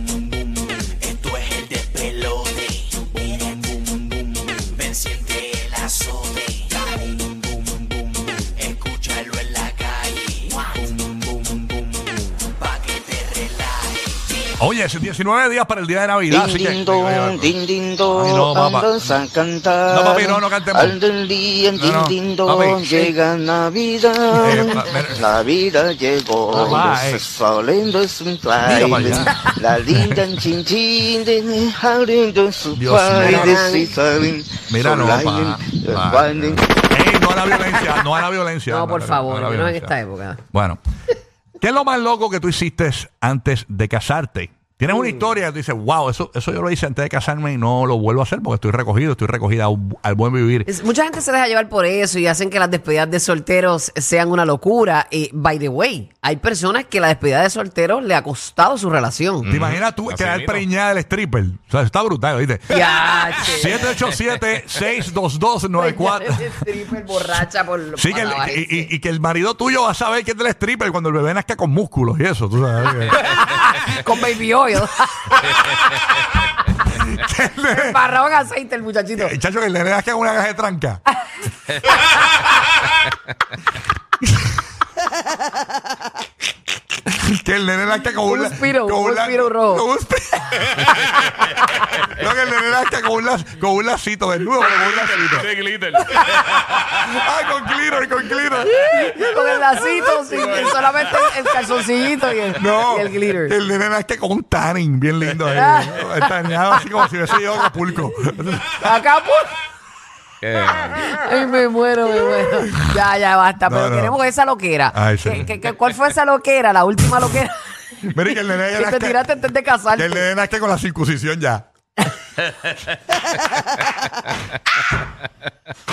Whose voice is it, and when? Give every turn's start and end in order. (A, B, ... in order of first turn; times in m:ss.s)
0:01.0-0:02.8 A
0:04.8-0:06.1 A
0:08.9-0:10.5 A
0:12.6-0:13.7 A
0:14.6-0:19.2 B
0:16.3-0:36.6 C
0:19.9-0:21.0 B
0:21.8-0:23.1 B
0:24.3-0:25.2 B
0:26.5-0:27.2 B
0:28.6-0:29.3 B
0:29.9-0:30.2 B
0:32.7-0:33.6 B
0:33.2-0:34.0 D
0:34.7-0:39.9 B
0:38.7-0:40.4 D
0:40.5-0:40.8 B
0:41.6-0:50.7 B
0:50.6-0:59.5 D
0:59.4-1:06.7 B
0:59.4-1:00.7 E
1:02.7-1:03.9 D
1:05.8-1:08.9 D
1:08.0-1:13.8 B
1:13.2-1:15.7 D
1:16.8-1:18.0 B
1:17.7-1:19.3 D
1:19.2-1:21.0 B
1:27.1-1:35.5 B
1:28.2-1:29.8 D
1:30.8-1:31.3 E
1:34.6-1:37.2 E
1:36.8-1:39.2 B
1:38.9-1:43.5 D
1:40.4-1:40.8 E
1:42.6-1:48.9 B
1:45.5-1:46.8 D
1:48.8-1:49.5 D
1:50.4-1:51.2 E
1:50.9-1:57.5 D
1:52.6-1:53.0 B
1:53.7-1:54.2 B
1:54.9-1:55.5 B
1:58.0-1:59.3 B
1:58.7-2:00.3 D
1:59.9-2:01.6 B